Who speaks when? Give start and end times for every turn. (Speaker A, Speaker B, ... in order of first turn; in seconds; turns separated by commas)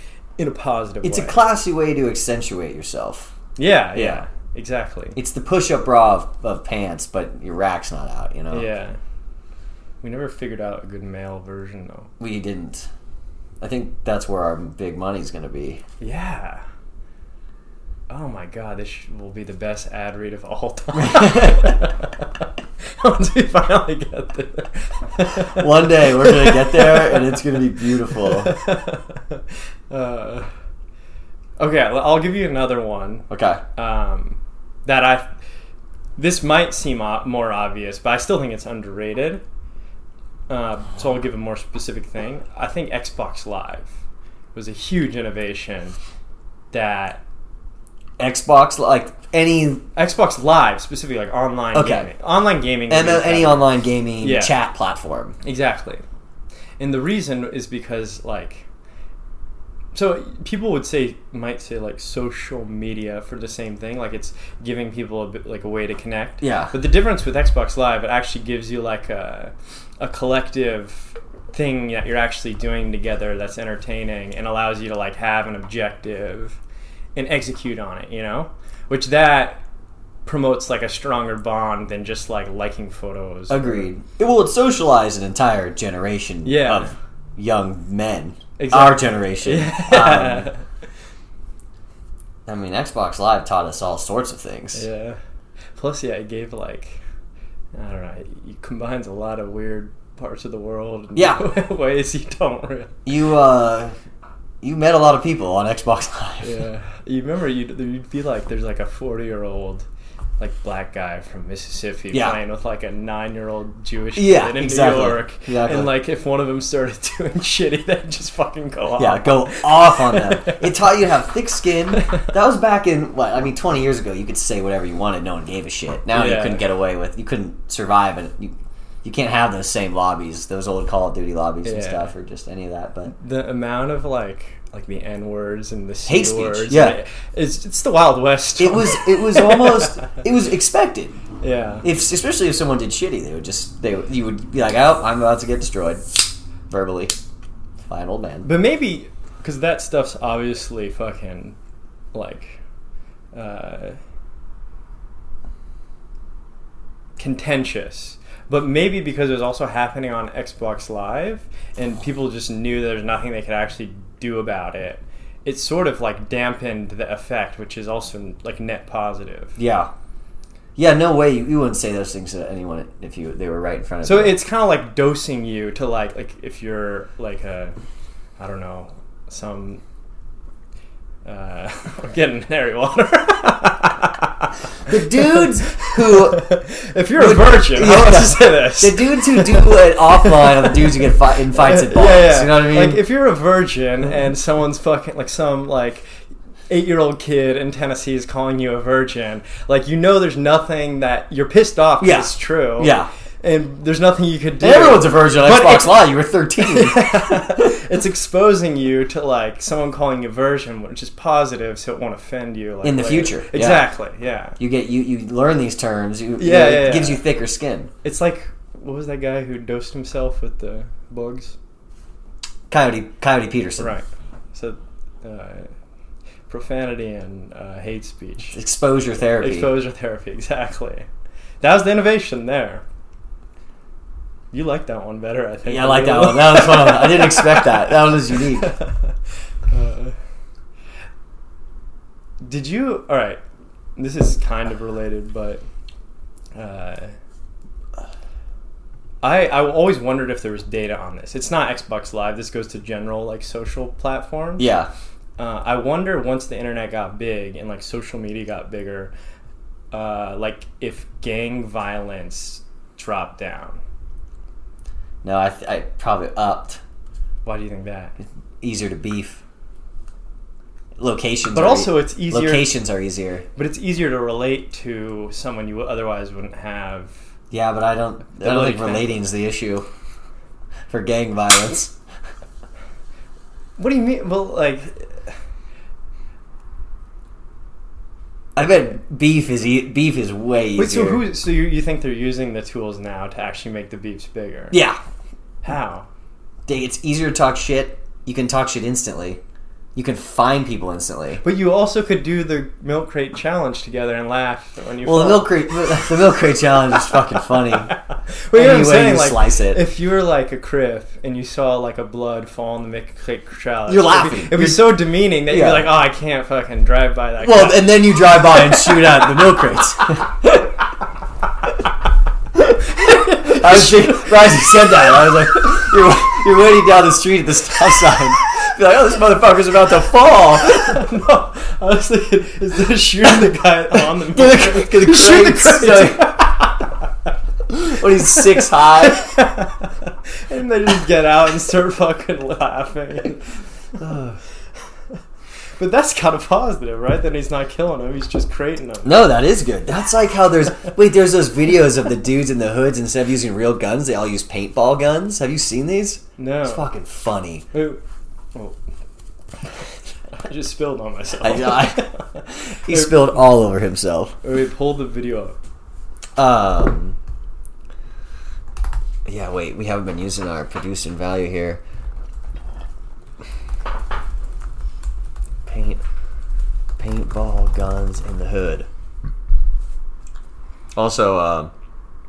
Speaker A: 0.4-1.4, Speaker B: 1.0-3.3, Speaker A: 3.6-5.2, Speaker B: 4.0-4.2, Speaker B: 5.2-8.7, Speaker A: 8.5-9.0, Speaker A: 10.0-12.1, Speaker B: 12.2-12.9, Speaker B: 13.6-15.8, Speaker A: 16.0-16.6, Speaker A: 18.1-22.1, Speaker B: 20.9-21.8, Speaker A: 23.0-27.4, Speaker B: 25.5-28.5, Speaker A: 28.2-30.5, Speaker A: 31.6-35.3, Speaker B: 33.3-33.6, Speaker A: 36.2-39.4, Speaker A: 40.5-44.0, Speaker A: 44.5-46.0, Speaker A: 46.7-47.2, Speaker B: 48.2-49.9, Speaker A: 50.0-54.5, Speaker B: 51.7-52.1, Speaker B: 52.9-55.4, Speaker A: 55.4-56.0, Speaker A: 56.8-58.6, Speaker A: 59.9-76.6, Speaker B: 66.4-66.7, Speaker A: 77.2-79.6, Speaker A: 80.3-83.9, Speaker B: 83.5-90.5, Speaker A: 86.4-86.9, Speaker A: 88.6-90.6, Speaker B: 92.5-94.8, Speaker A: 94.7-95.2, Speaker A: 95.8-97.0, Speaker A: 97.7-102.9, Speaker B: 101.2-101.5, Speaker B: 103.1-104.0, Speaker B: 104.6-106.6, Speaker A: 106.4-109.9, Speaker A: 110.4-120.6, Speaker B: 112.1-112.4, Speaker B: 114.2-115.9, Speaker B: 119.0-133.1, Speaker A: 122.0-122.2, Speaker A: 126.1-126.6, Speaker A: 131.7-132.1, Speaker A: 133.1-140.1, Speaker B: 136.1-137.0, Speaker B: 138.6-141.2, Speaker A: 141.4-141.9, Speaker B: 141.8-147.2, Speaker B: 147.9-148.5, Speaker A: 148.4-151.6, Speaker A: 152.1-152.6, Speaker A: 153.3-154.0, Speaker A: 157.2-169.6, Speaker B: 169.6-169.9, Speaker B: 170.8-174.4, Speaker A: 174.0-177.8, Speaker A: 178.4-179.8, Speaker A: 181.2-184.5, Speaker B: 184.9-186.5, Speaker A: 185.3-190.8, Speaker B: 187.2-193.0, Speaker A: 191.5-196.1, Speaker A: 196.7-206.0, Speaker B: 202.0-203.1, Speaker B: 204.6-207.7, Speaker A: 206.6-214.6, Speaker B: 212.8-213.9, Speaker B: 214.6-217.9, Speaker A: 216.4-217.2, Speaker A: 218.0-221.6, Speaker B: 222.7-223.9, Speaker A: 223.8-225.7, Speaker A: 226.5-228.6, Speaker B: 228.5-229.7, Speaker A: 229.4-231.1, Speaker A: 231.6-232.8, Speaker A: 234.5-239.1, Speaker B: 235.7-238.7, Speaker A: 239.7-240.2, Speaker A: 242.4-243.4, Speaker A: 244.0-245.6, Speaker A: 246.6-247.1, Speaker A: 249.2-254.7, Speaker B: 254.6-254.9, Speaker A: 255.4-259.1, Speaker A: 259.9-263.8, Speaker B: 265.2-266.8, Speaker A: 267.4-268.1, Speaker B: 268.6-269.4, Speaker B: 271.0-273.5, Speaker A: 271.5-272.7, Speaker A: 273.6-277.1, Speaker B: 277.5-279.9, Speaker A: 278.4-279.2, Speaker B: 280.9-281.9, Speaker A: 283.8-285.3, Speaker B: 288.6-291.2, Speaker A: 290.8-294.8, Speaker B: 294.7-295.0, Speaker A: 295.6-296.1, Speaker B: 296.7-299.4, Speaker B: 299.9-301.4, Speaker A: 301.4-306.0, Speaker B: 305.0-307.9, Speaker A: 307.9-317.9, Speaker B: 308.5-309.8, Speaker B: 313.9-315.9, Speaker B: 317.4-320.6, Speaker B: 322.8-331.0, Speaker A: 323.0-324.4, Speaker A: 330.7-336.9, Speaker B: 334.3-336.5, Speaker B: 337.7-339.3, Speaker A: 339.0-343.4, Speaker B: 344.0-344.4, Speaker A: 345.8-349.2, Speaker B: 349.0-357.7, Speaker A: 356.4-356.9, Speaker A: 357.7-358.0, Speaker A: 360.3-363.4, Speaker B: 361.4-362.1, Speaker B: 362.8-364.4, Speaker A: 364.4-365.6, Speaker B: 366.4-367.2, Speaker B: 369.3-371.8, Speaker B: 375.6-376.0, Speaker B: 377.0-378.9, Speaker B: 380.9-381.7